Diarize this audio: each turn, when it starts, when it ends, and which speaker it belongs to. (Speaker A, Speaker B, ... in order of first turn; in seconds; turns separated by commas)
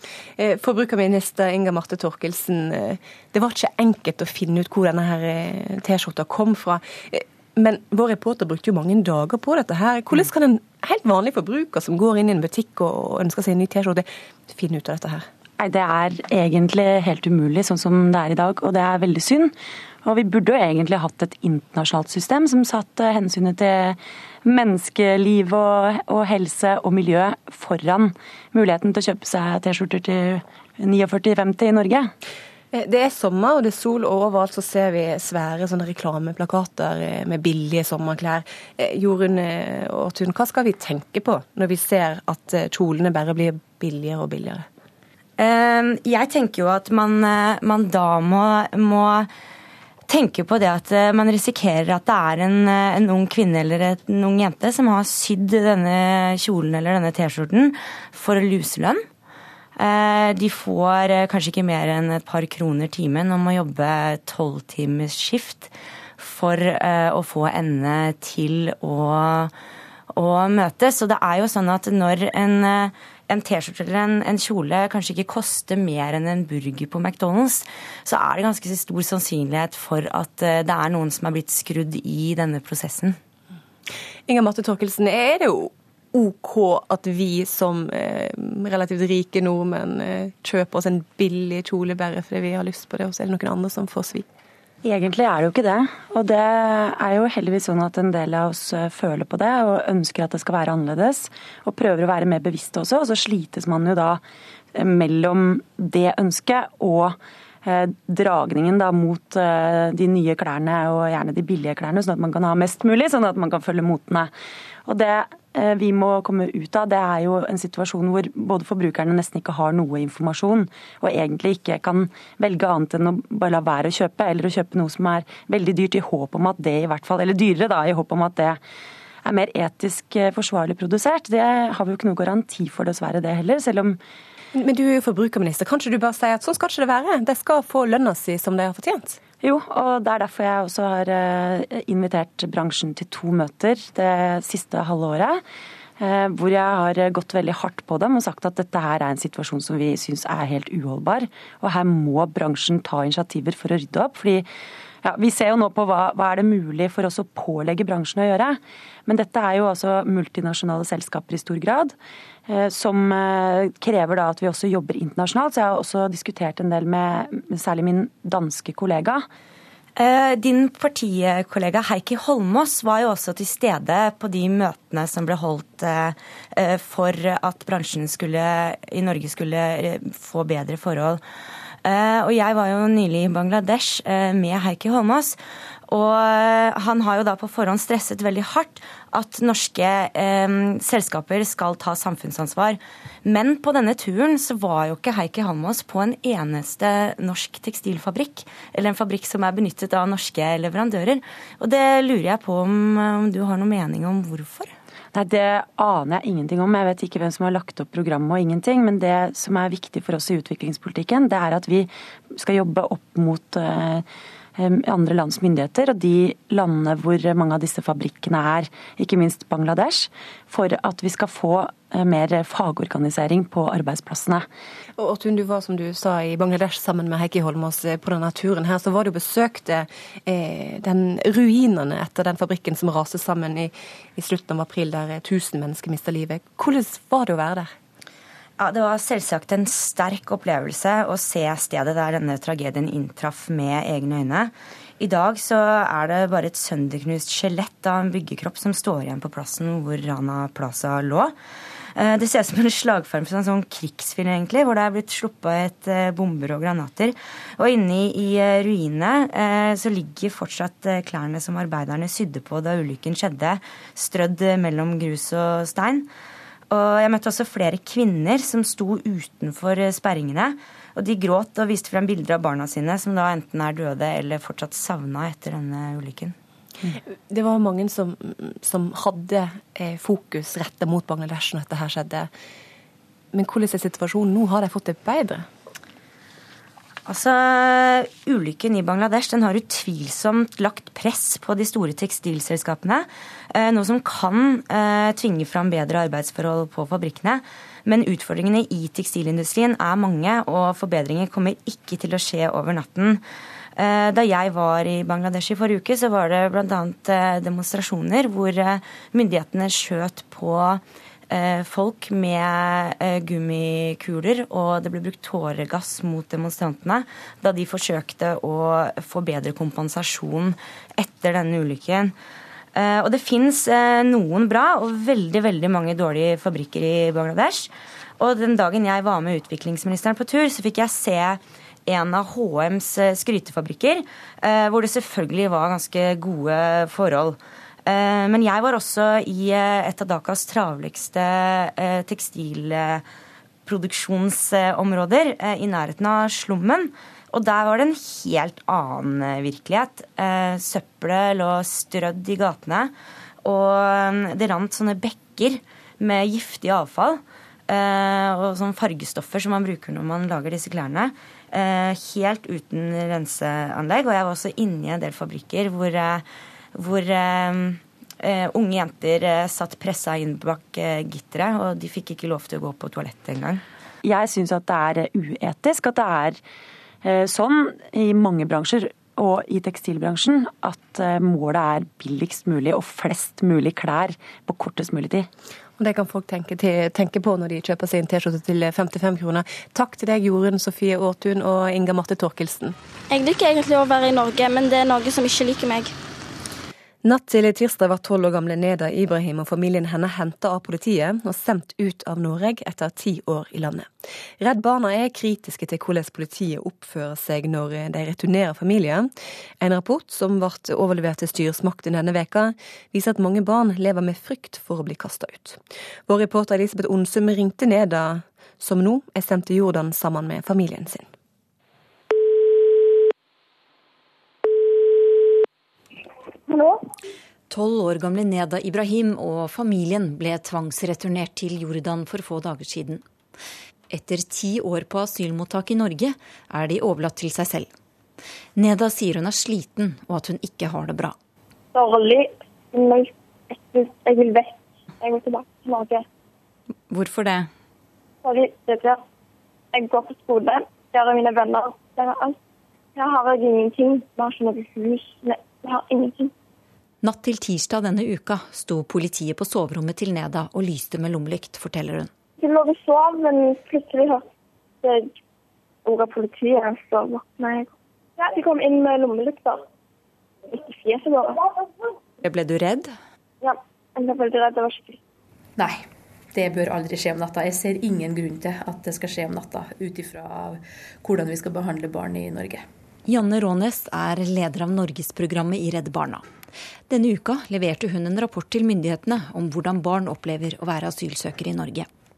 Speaker A: 0.4-15.3, Speaker B: 15.6-19.5, Speaker B: 20.0-32.1, Speaker A: 32.7-44.6, Speaker C: 45.4-49.3, Speaker C: 50.1-59.0, Speaker C: 59.8-69.5, Speaker C: 70.1-83.2, Speaker A: 84.3-94.2, Speaker B: 94.8-104.2, Speaker B: 104.7-114.3, Speaker B: 114.8-128.6, Speaker B: 129.2-134.0, Speaker A: 134.5-139.2, Speaker B: 139.4-145.4, Speaker B: 146.0-154.5, Speaker B: 155.0-161.9, Speaker B: 162.5-169.3, Speaker C: 169.9-181.2, Speaker C: 181.8-204.7, Speaker B: 205.1-214.0, Speaker B: 214.6-224.4, Speaker A: 225.0-237.7, Speaker C: 238.6-251.3, Speaker C: 251.9-266.1, Speaker C: 266.7-276.3, Speaker A: 276.9-282.3, Speaker A: 283.3-285.4, Speaker C: 287.1-303.2, Speaker C: 303.8-322.1, Speaker C: 322.7-343.0, Speaker C: 343.6-352.9, Speaker C: 353.4-373.6, Speaker B: 374.0-376.4, Speaker B: 377.0-385.3, Speaker A: 385.8-392.8, Speaker D: 393.1-395.9, Speaker A: 397.0-421.1, Speaker E: 426.4-426.8, Speaker F: 427.5-433.0, Speaker F: 433.9-437.7, Speaker F: 438.6-441.1, Speaker E: 441.7-446.0, Speaker F: 446.9-447.5, Speaker E: 448.2-449.0, Speaker E: 449.7-452.4, Speaker E: 452.9-456.3, Speaker F: 457.0-462.1, Speaker E: 462.4-464.2, Speaker E: 464.8-465.1, Speaker E: 465.8-469.6, Speaker E: 470.5-471.5, Speaker F: 472.2-472.9, Speaker E: 473.4-475.0, Speaker G: 475.6-482.6, Speaker F: 483.1-486.2, Speaker F: 486.9-491.9